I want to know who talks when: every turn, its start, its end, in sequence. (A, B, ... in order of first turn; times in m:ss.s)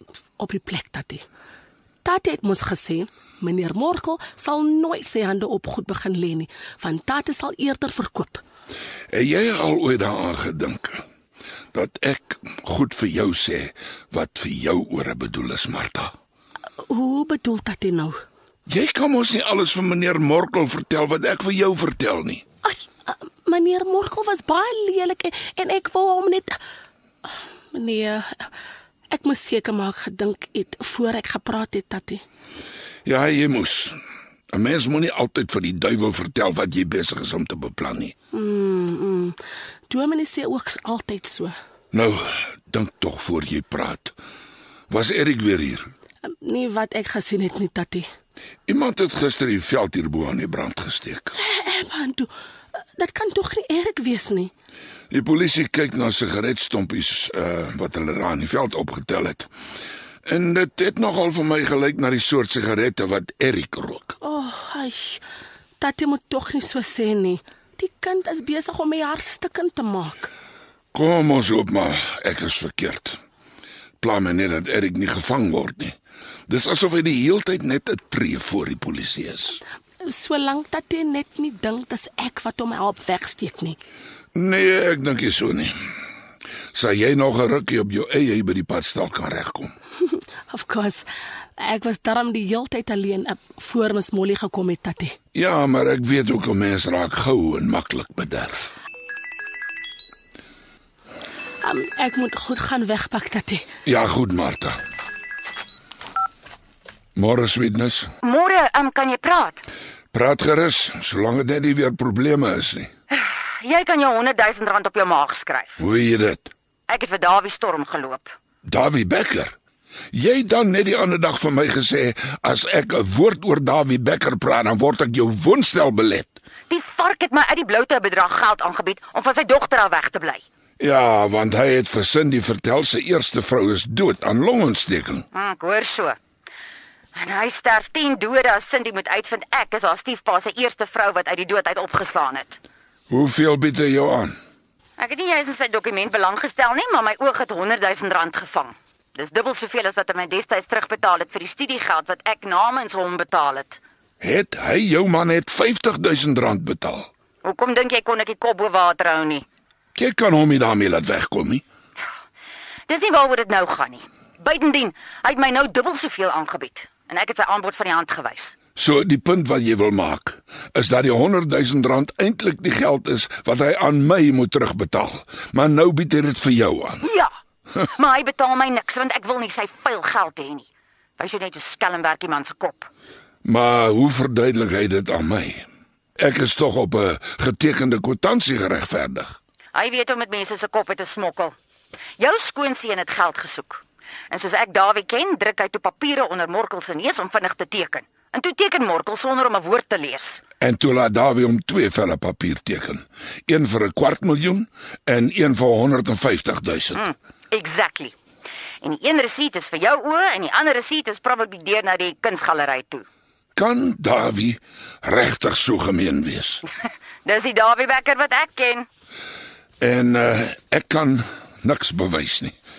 0:00.4-0:01.2 A
0:02.0-0:08.4 A
0:09.1-0:11.0 B
0:11.7-0:16.1 B
0:16.8-0:18.2 A
0:18.7-0:22.4 B
0:22.6-0:26.6 A
0:27.7-0:28.5 A
0:29.1-0:32.2 A
0:33.0-0:34.0 B
0:34.5-0:38.1 B
0:38.3-0:39.4 A
0:39.9-0:41.5 A
0:41.9-0:44.1 B
0:44.9-0:45.9 B
0:46.2-0:48.1 A
0:48.7-0:51.3 B
0:51.4-0:52.3 A
0:53.0-0:54.5 A
0:55.1-0:59.5 B
1:00.2-1:04.1 B
1:04.2-1:05.2 A
1:05.8-1:10.3 A
1:10.9-1:13.2 B
1:14.0-1:16.0 B
1:16.5-1:19.6 B
1:20.0-1:23.8 A
1:24.3-1:25.7 B
1:26.7-1:29.7 B
1:30.0-1:31.1 A
1:31.6-1:35.1 A
1:35.3-1:38.7 B
1:41.6-1:43.6 A
1:43.8-1:44.8 B
1:47.2-1:48.1 B
1:48.2-1:49.6 C
1:50.1-1:52.9 B
1:53.1-1:55.8 C
1:55.8-1:56.5 B
1:56.9-1:58.3 C
1:58.6-1:59.5 B
2:00.1-2:06.4 B
2:06.7-2:10.4 C
2:10.8-2:15.2 B
2:15.3-2:16.2 C
2:17.1-2:22.6 C
2:23.1-2:24.3 B
2:25.0-2:33.8 C
2:34.2-2:37.1 B
2:37.4-2:39.4 C
2:39.9-2:41.6 B
2:42.9-2:48.5 C
2:48.8-2:57.0 B
2:57.0-2:57.3 C
2:57.9-3:02.9 C
3:03.4-3:05.7 B
3:06.2-3:09.4 B
3:09.7-3:11.5 C
3:12.2-3:20.4 C
3:20.6-3:27.0 B
3:26.9-3:28.2 C
3:28.8-3:33.0 C
3:33.6-3:36.6 B
3:37.2-3:38.9 C
3:39.8-3:42.6 B